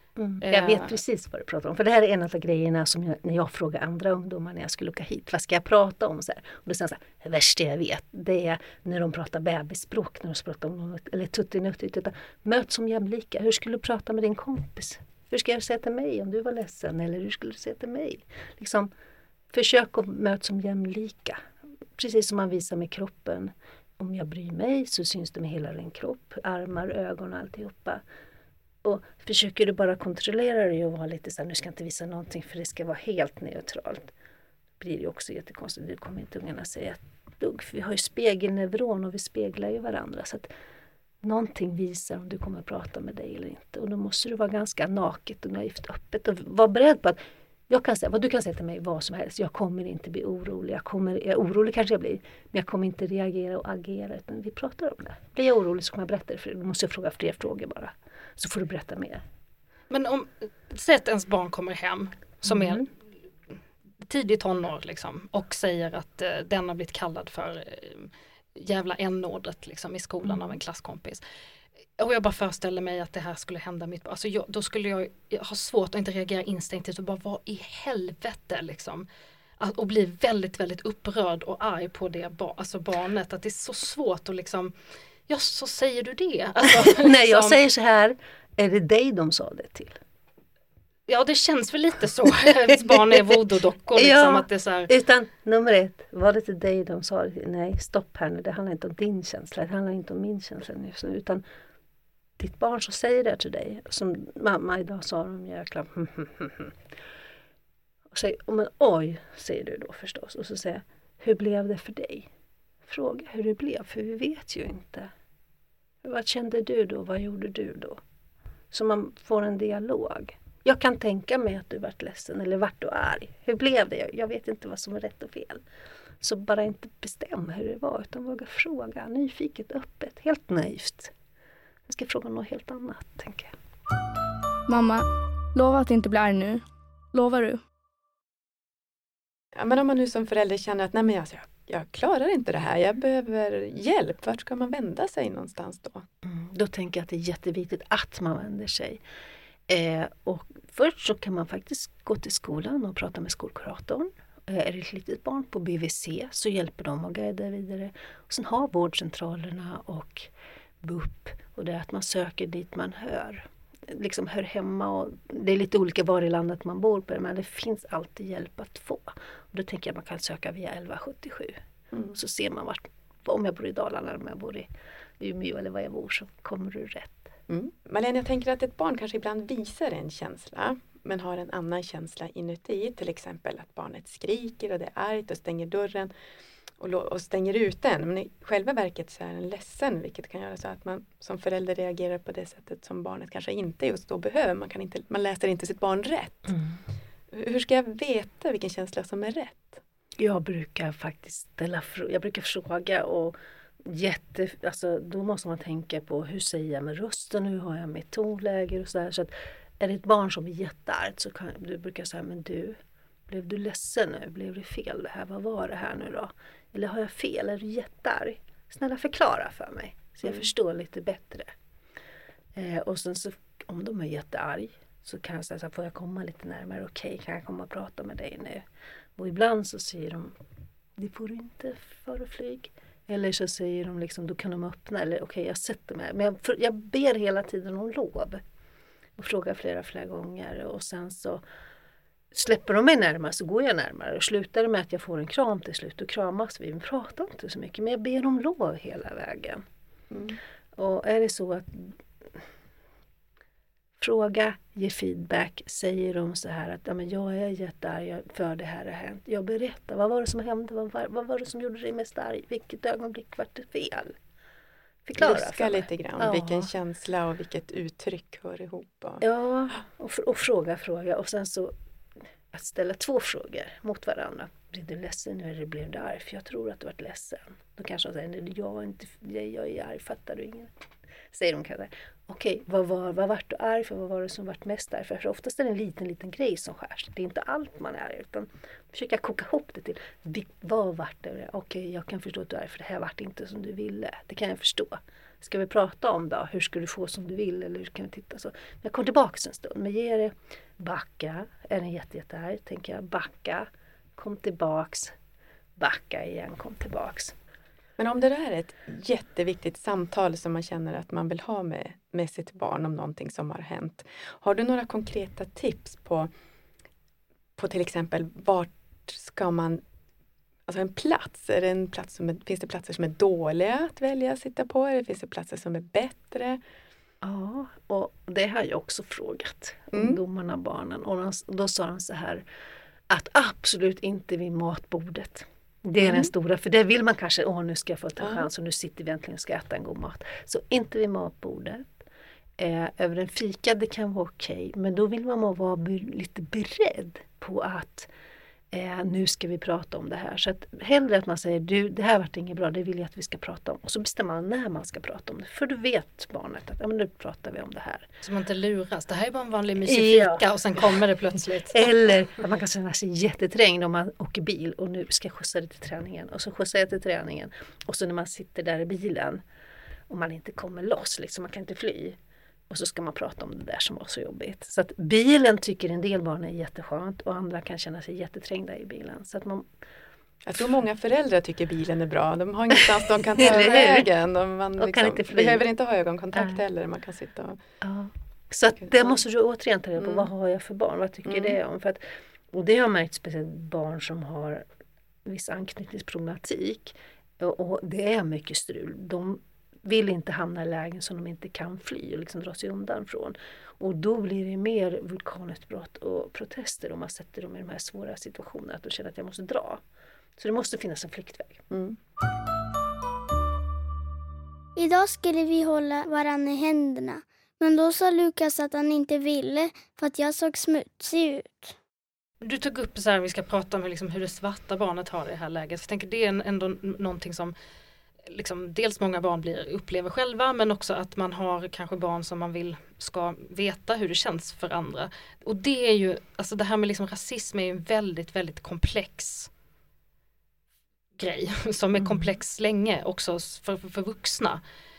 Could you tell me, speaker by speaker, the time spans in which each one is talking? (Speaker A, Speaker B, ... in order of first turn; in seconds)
Speaker A: 0.1-18.9, 19.5-21.4, 21.9-28.0, 28.8-34.1, 34.8-40.5, 41.2-59.2, 62.5-62.8, 70.2-70.6, 86.7-90.0, 92.7-93.2, 93.9-101.4, 102.4-106.8, 108.1-112.3, 112.9-115.1, 116.0-118.0, 118.7-125.6, 126.2-131.1, 131.9-133.5, 146.2-149.0, 149.7-160.3, 160.8-171.6, 172.1-174.7, 175.2-177.2, 200.2-221.5, 222.5-228.6, 229.2-230.3, 231.0-238.4, 239.2-241.4, 242.3-249.6, 250.8-252.4, 254.0-264.2, 265.1-266.7, 269.2-271.7, 272.5-280.7, 281.3-305.1, 305.8-307.3, 327.2-332.4, 333.1-341.9, 342.6-348.1, 348.7-358.1, 359.8-361.0, 361.7-369.4, 370.1-372.2, 372.7-379.7, 383.4-384.1, 384.8-385.6, 387.8-394.6, 395.2-409.8, 410.4-411.6, 441.9-442.3
Speaker B: 0.4-0.9, 59.9-62.9, 64.1-71.2, 72.0-79.0, 79.6-84.7, 85.3-87.6, 91.1-94.9, 358.2-361.9, 422.4-427.5, 428.2-439.5, 441.2-444.6
Speaker C: 134.7-136.6, 137.1-137.6
Speaker D: 139.5-146.1, 171.9-172.2, 177.5-186.1, 186.8-196.5, 197.3-199.8, 250.1-250.4, 265.2-269.2, 308.0-316.3, 317.6-319.8, 320.7-326.6, 329.9-330.2, 336.0-336.3, 338.2-338.5, 380.4-387.6, 390.0-390.3, 391.3-391.6, 411.7-411.9
Speaker E: 414.8-421.7